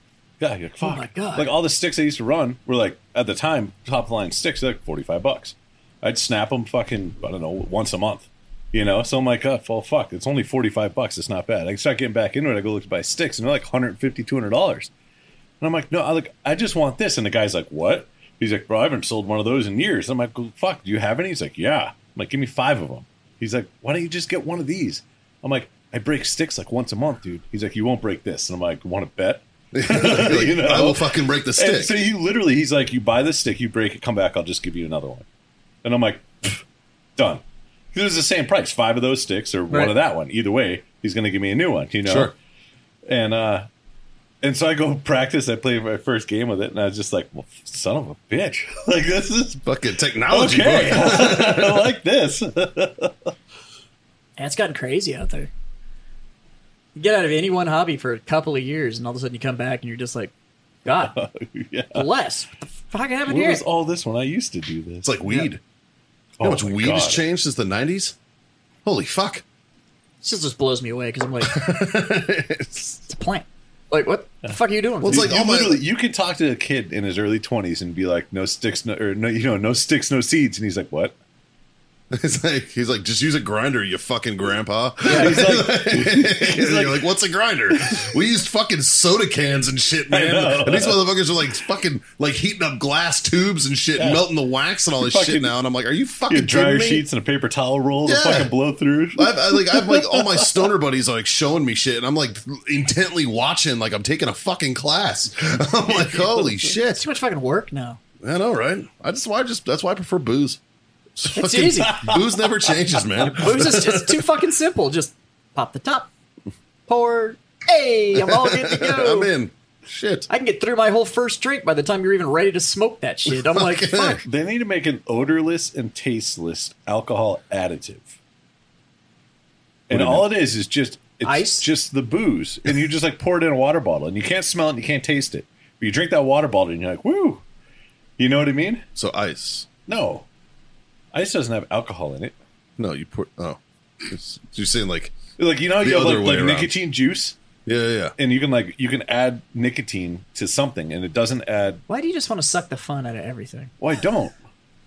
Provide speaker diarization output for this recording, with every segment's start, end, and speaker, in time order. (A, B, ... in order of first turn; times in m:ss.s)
0:00.4-0:14.9 A
0:00.8-0:01.5 B
0:15.6-0:35.2 A
0:29.7-0:31.9 C
0:35.8-0:36.6 A
0:37.2-0:42.3 A
0:42.0-0:42.3 C
0:43.1-0:43.7 A
0:44.4-0:49.6 A
0:49.6-0:51.9 C
0:50.3-0:53.3 A
0:54.4-0:55.5 B
0:57.0-1:00.3 B
1:00.8-1:01.2 B
1:01.1-1:02.1 A
1:01.9-1:03.6 B
1:03.3-1:05.1 A
1:05.0-1:05.6 C
1:06.4-1:07.2 A
1:06.4-1:08.2 C
1:08.8-1:09.4 C
1:10.2-1:11.7 B
1:11.4-1:13.0 C
1:13.1-1:15.4 B
1:14.5-1:21.1 A
1:15.0-1:15.8 C
1:22.1-1:37.0 C
1:25.0-1:25.4 B
1:25.1-1:27.1 A
1:27.7-1:28.1 A
1:30.1-1:31.0 A
1:34.0-1:34.2 A
1:35.0-1:35.5 A
1:36.3-1:40.7 A
1:38.1-1:38.5 C
1:39.2-1:47.0 C
1:46.0-1:46.5 A
1:46.9-1:48.0 B
1:48.2-1:50.6 C
1:51.2-1:54.2 C
1:51.3-1:52.2 B
1:51.8-1:52.8 A
1:53.2-1:56.1 B
1:56.9-1:59.3 B
1:58.2-2:00.3 C
2:00.3-2:04.2 B
2:03.3-2:04.2 C
2:04.2-2:08.1 A
2:09.9-2:17.4 A
2:09.9-2:10.3 C
2:11.2-2:11.7 B
2:18.2-2:18.8 A
2:19.0-2:19.7 C
2:19.9-2:20.2 A
2:21.1-2:22.3 A
2:22.8-2:25.2 C
2:25.4-2:27.4 A
2:25.8-2:26.7 C
2:27.7-2:28.2 C
2:28.2-2:31.8 A
2:31.9-2:33.7 B
2:33.8-2:34.4 A